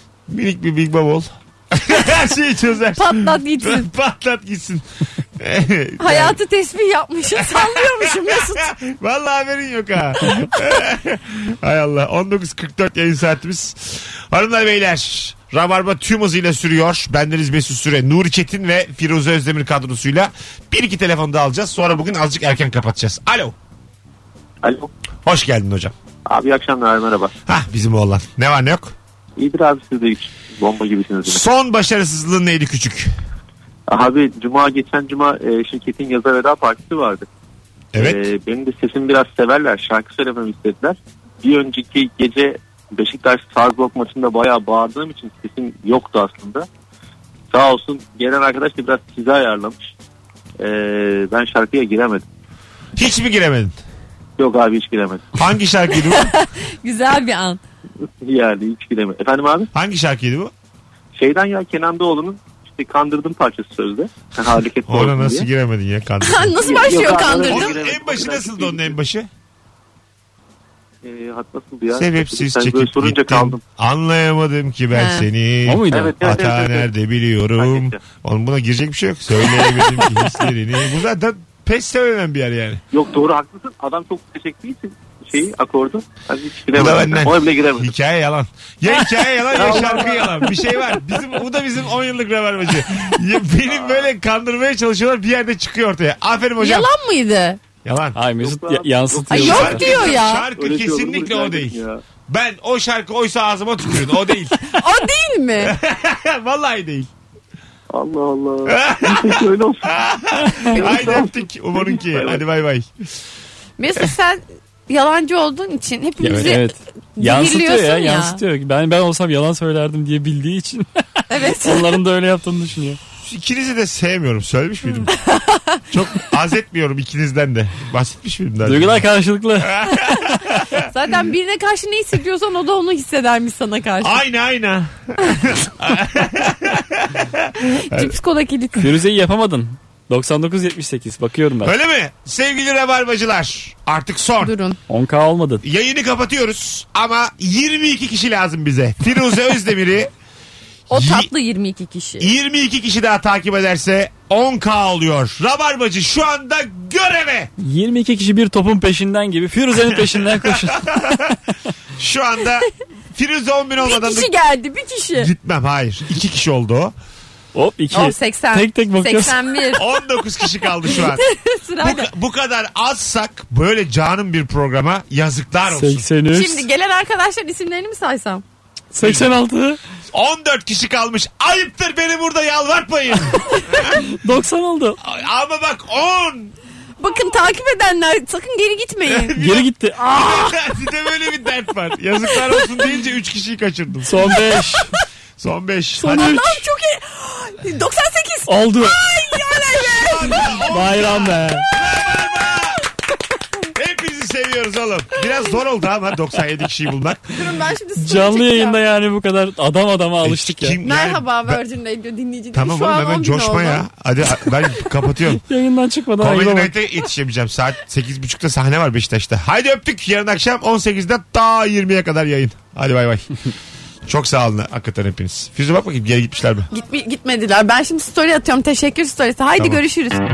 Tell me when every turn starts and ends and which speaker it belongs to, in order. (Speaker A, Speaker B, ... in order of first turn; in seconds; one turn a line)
Speaker A: 0.3-6.4
Speaker B: 3.0-3.9
Speaker B: 6.0-8.7
Speaker A: 7.4-23.6
Speaker C: 24.6-24.9
Speaker A: 25.2-25.9
Speaker C: 26.2-27.3
Speaker A: 27.5-28.9
Speaker C: 29.4-31.4
Speaker A: 31.2-33.1
Speaker C: 33.9-37.3
Speaker A: 37.9-38.2
Speaker C: 38.0-46.7
Speaker C: 47.5-49.9
Speaker C: 50.6-52.3
Speaker A: 53.0-53.8
Speaker C: 54.4-55.5
Speaker A: 55.4-56.3
Speaker B: 55.9-57.6
Speaker C: 58.2-59.7
Speaker A: 59.7-60.5
Speaker C: 61.1-65.5
Speaker A: 64.9-69.3
Speaker B: 66.2-67.8
Speaker C: 66.6-69.0
Speaker C: 71.0-73.6
Speaker A: 71.9-82.8
Speaker B: 74.9-75.3
Speaker D: 75.7-76.2
Speaker C: 75.9-76.9
Speaker C: 77.5-78.0
Speaker C: 82.9-87.9
Speaker A: 86.7-96.9
Speaker C: 89.1-90.6
Speaker C: 93.5-94.1
Speaker B: 96.6-97.6
Speaker A: 97.8-98.2
Speaker D: 98.2-99.8
Speaker C: 98.4-102.0
Speaker B: 99.3-100.5
Speaker A: 99.4-104.6
Speaker B: 104.7-105.7
Speaker A: 105.6-107.1
Speaker C: 107.9-110.0
Speaker A: 108.7-112.9
Speaker C: 110.6-112.4
Speaker B: 113.8-118.4
Speaker D: 116.2-120.8
Speaker B: 121.3-122.0
Speaker D: 121.4-123.0
Speaker A: 123.2-125.1
Speaker B: 125.1-125.8
Speaker A: 125.9-129.1
Speaker D: 128.6-129.8
Speaker A: 129.6-130.9
Speaker B: 130.9-134.2
Speaker A: 134.0-138.1
Speaker B: 137.6-138.9
Speaker D: 138.8-141.7
Speaker A: 141.6-144.5
Speaker B: 144.4-144.8
Speaker D: 144.9-145.6
Speaker A: 145.6-150.1
Speaker A: 150.9-151.3
Speaker B: 150.9-152.3
Speaker A: 152.2-157.5
Speaker D: 157.6-161.4
Speaker A: 160.1-161.2
Speaker A: 162.0-164.3
Speaker B: 163.8-165.3
Speaker A: 165.2-166.9
Speaker D: 167.5-169.6
Speaker B: 167.9-169.8
Speaker A: 169.7-171.2
Speaker B: 170.6-172.1
Speaker A: 171.8-176.0
Speaker D: 175.7-176.7
Speaker B: 176.3-178.4
Speaker D: 178.9-179.8
Speaker A: 179.0-179.3
Speaker A: 180.1-183.9
Speaker D: 183.9-185.0
Speaker A: 185.0-186.5
Speaker B: 187.0-189.3
Speaker A: 189.1-194.4
Speaker D: 189.4-190.0
Speaker B: 190.0-190.6
Speaker B: 192.3-192.6
Speaker D: 194.1-195.0
Speaker A: 195.4-196.4
Speaker D: 196.0-196.6
Speaker B: 196.1-200.7
Speaker D: 198.5-199.0
Speaker A: 199.8-202.8
Speaker D: 200.7-201.7
Speaker A: 203.7-207.2
Speaker B: 207.3-208.8
Speaker D: 208.0-210.8
Speaker A: 210.2-211.6
Speaker B: 210.8-213.8
Speaker A: 212.5-215.4
Speaker D: 215.5-216.7
Speaker A: 216.2-223.3
Speaker A: 224.1-226.7
Speaker B: 226.7-230.2